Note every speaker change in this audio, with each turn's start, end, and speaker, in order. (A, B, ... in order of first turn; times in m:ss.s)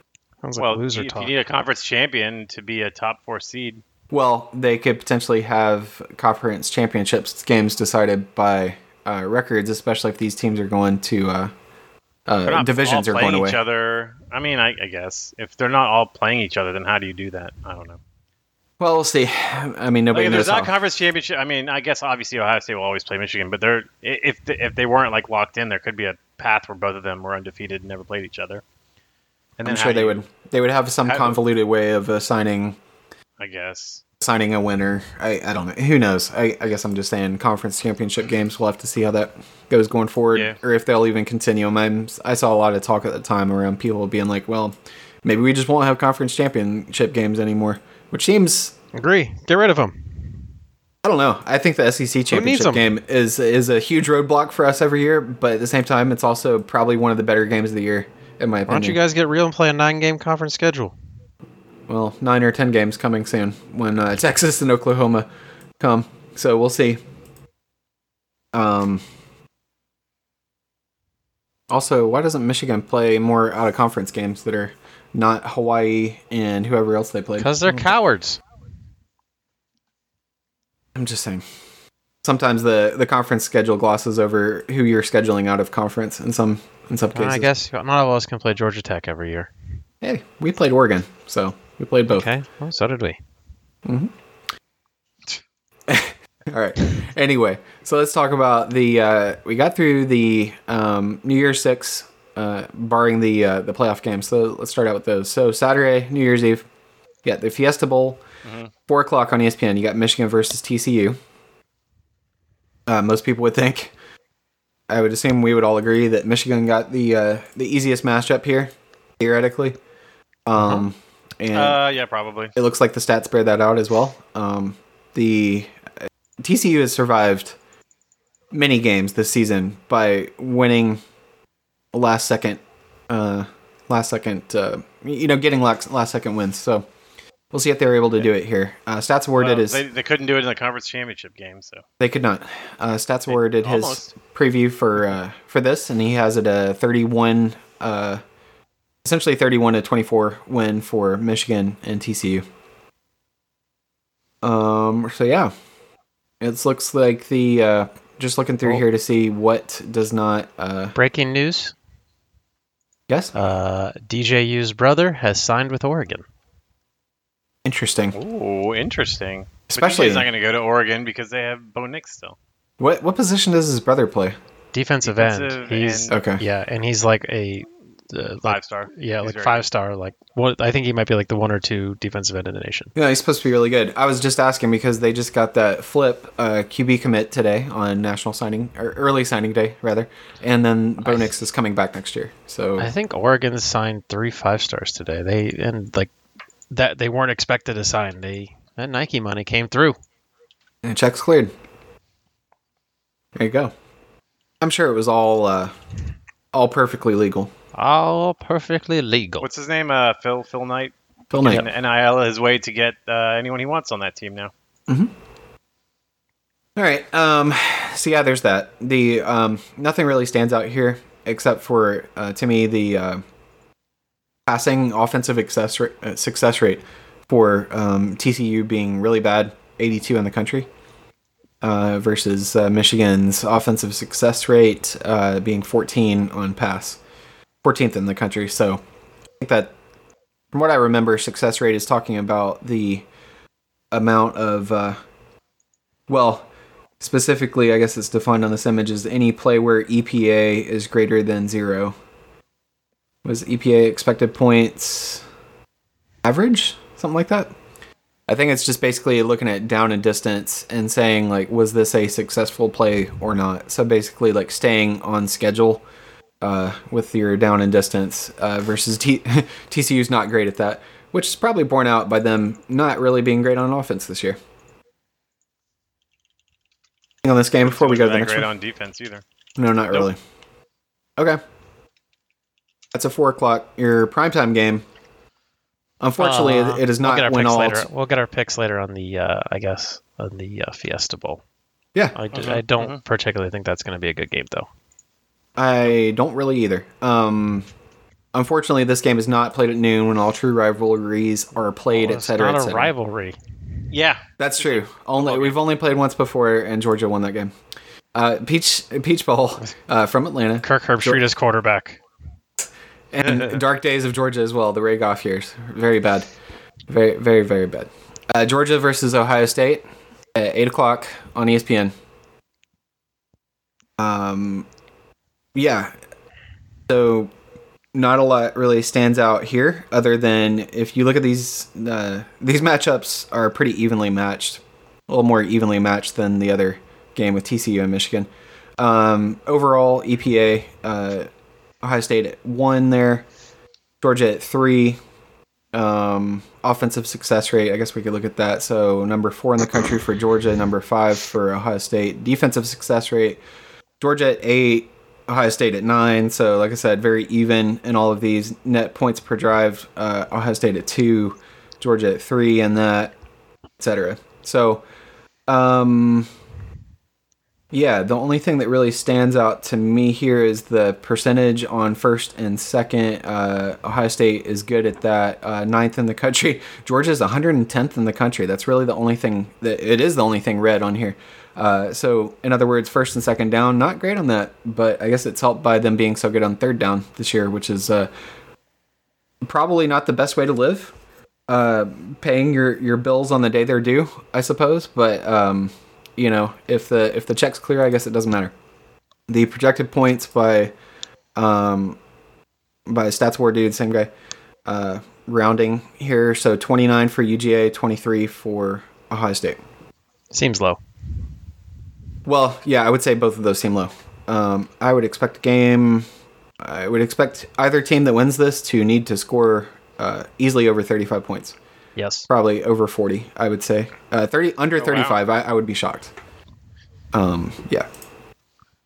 0:00.4-0:01.3 A
0:00.6-0:03.8 B
0:04.1-0:11.5 C
0:12.3-0:13.6 C
0:12.4-0:18.0 B
0:18.8-0:20.7 C
0:20.1-0:28.6 B
0:29.6-0:30.2 B
0:29.6-0:32.8 C
0:31.0-0:31.4 B
0:33.4-0:34.0 B
0:34.2-0:48.7 C
0:48.9-0:50.3 A
0:51.0-0:59.0 C
0:52.3-0:52.9 A
0:58.7-1:00.9 A
1:01.9-1:05.3 C
1:05.8-1:07.0 C
1:08.5-1:09.0 C
1:11.7-1:17.9 C
1:17.4-1:18.4 A
1:20.9-1:21.4 C
1:22.2-1:27.5 C
1:27.1-1:29.5 A
1:30.0-1:32.3 C
1:32.1-1:33.2 A
1:33.8-1:34.1 C
1:35.9-1:46.6 C
1:47.2-1:48.2 C
1:48.4-1:48.7 B
1:48.9-1:51.2 C
1:52.9-1:53.9 C
1:54.9-1:59.8 C
2:00.4-2:01.8 C
2:00.6-2:00.8 A
2:01.5-2:02.6 B
2:02.6-2:05.7 C
2:06.4-2:07.6 C
2:08.5-2:11.0 C
2:11.9-2:16.9 C
2:17.5-2:19.8 C
2:19.4-2:21.8 B
2:22.0-2:28.2 C
2:23.3-2:24.1 B
2:29.0-2:32.4 C
2:34.4-2:35.5 C
2:36.4-2:41.0 C
2:40.9-2:41.7 A
2:43.1-2:43.3 C
2:43.3-2:46.2 A
2:47.6-2:48.2 C
2:48.1-2:52.4 B
2:49.7-2:50.3 C
2:52.8-2:54.4 C
2:54.7-3:02.9 A
2:55.0-2:56.1 B
2:56.1-2:56.4 C
2:58.4-2:59.7 B
3:03.0-3:12.9 C
3:12.8-3:16.1 A
3:16.7-3:20.0 A
3:20.8-3:21.5 C
3:23.4-3:23.7 C
3:24.6-3:25.7 C
3:26.5-3:27.5 C
3:27.7-3:29.4 A
3:29.4-3:34.5 B
3:31.3-3:31.7 C
3:36.8-3:43.2 C
3:44.5-3:50.7 C
3:51.6-3:57.0 C
3:57.6-3:58.8 C
3:59.4-3:59.7 C
4:00.5-4:03.0 C
4:03.9-4:05.0 C
4:06.1-4:06.5 C
4:07.0-4:11.9 C
4:13.2-4:15.2 C
4:16.2-4:17.5 C
4:18.3-4:25.8 C
4:26.4-4:34.4 C
4:37.2-4:38.5 C
4:37.6-4:39.2 B
4:39.6-4:40.2 C
4:42.9-4:44.8 C
4:46.0-4:47.9 C
4:46.2-4:51.4 A
4:52.1-4:54.7 A
4:52.3-4:53.0 B
4:55.6-4:57.7 C
4:58.3-5:02.9 C
5:01.9-5:03.4 A
5:03.9-5:05.6 B
5:04.4-5:07.5 C
5:08.1-5:11.2 C
5:10.6-5:12.0 A
5:12.6-5:16.3 C
5:16.9-5:21.9 C
5:24.0-5:24.7 C
5:25.5-5:25.9 C
5:26.9-5:27.3 C
5:27.9-5:38.3 C
5:38.8-5:41.3 C
5:41.8-5:43.3 C
5:44.0-5:45.0 C
5:45.7-5:53.4 C
5:54.0-6:03.1 C
6:03.8-6:04.8 C
6:05.5-6:06.3 C
6:07.7-6:28.1 C
6:29.4-6:30.9 C
6:31.5-6:38.5 C
6:39.3-6:40.7 C
6:41.4-6:42.0 C
6:42.9-6:44.1 C
6:44.6-6:49.6 C
6:50.3-6:50.8 A
6:52.2-6:56.1 C
6:56.6-7:01.6 C
7:02.0-7:02.3 A
7:02.3-7:06.1 C
7:04.8-7:05.2 B
7:07.1-7:07.9 C